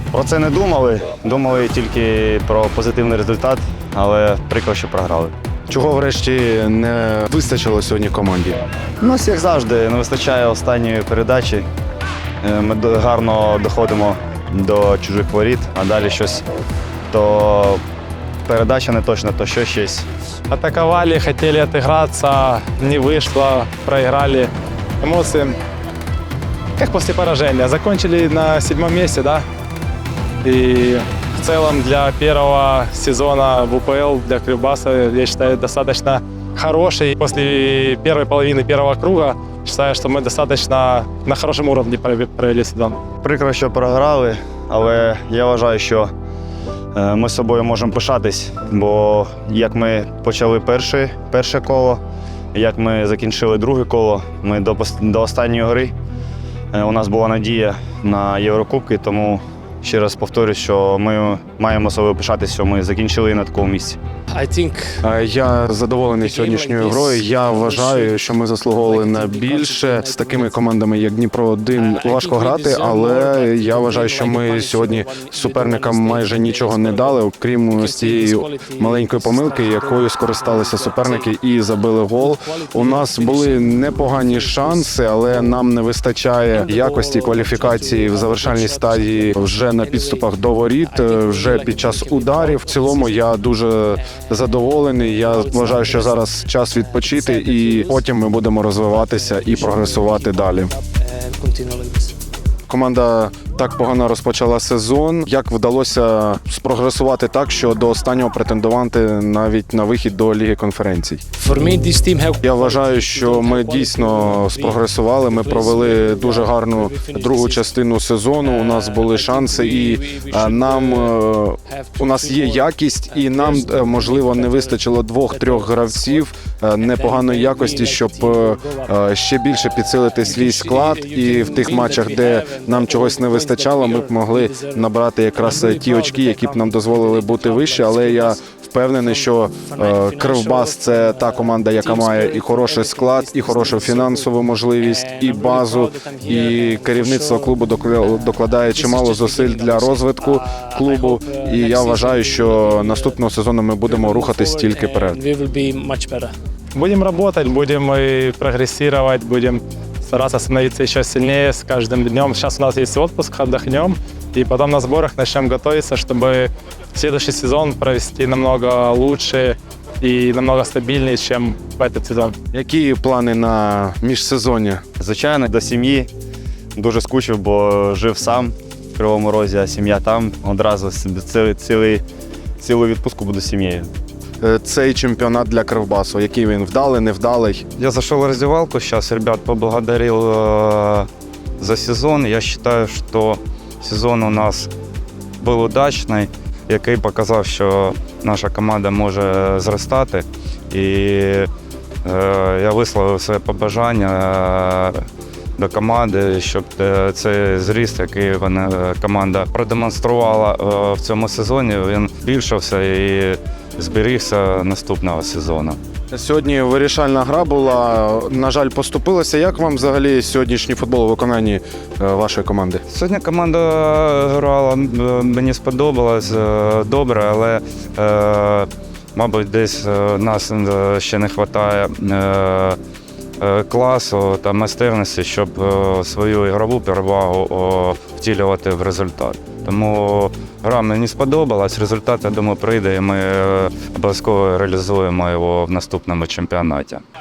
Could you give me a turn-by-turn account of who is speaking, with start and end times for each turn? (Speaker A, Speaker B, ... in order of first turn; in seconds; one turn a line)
Speaker A: 0.1-5.3
Speaker B: 5.7-8.6
Speaker A: 9.0-11.7
Speaker A: 12.4-16.4
Speaker A: 17.1-17.8
Speaker A: 18.4-20.1
Speaker C: 20.5-25.5
Speaker C: 26.8-29.4
Speaker C: 30.4-43.0
Speaker A: 43.2-46.1
Speaker A: 47.0-52.0
Speaker A: 52.5-56.0
Speaker A: 56.7-64.0
Speaker D: 64.3-65.0
Speaker B: 65.0-100.7
Speaker D: 66.2-70.6
Speaker D: 71.7-81.4
Speaker D: 82.1-85.7
Speaker D: 86.5-102.2
Speaker B: 102.7-111.2
Speaker D: 111.4-117.8
Speaker B: 112.4-155.2
Speaker D: 118.4-153.2
Speaker D: 153.8-156.3
Speaker C: 156.7-172.4
Speaker B: 172.5-174.8
Speaker A: 175.0-176.1
Speaker A: 176.8-182.0
Speaker A: 182.6-183.9
Speaker B: 184.4-187.7
Speaker E: 187.8-194.7
Speaker E: 195.4-201.5
Speaker E: 202.0-215.8
Speaker B: 216.1-222.8
Speaker E: 222.9-232.8
Speaker E: 233.4-247.0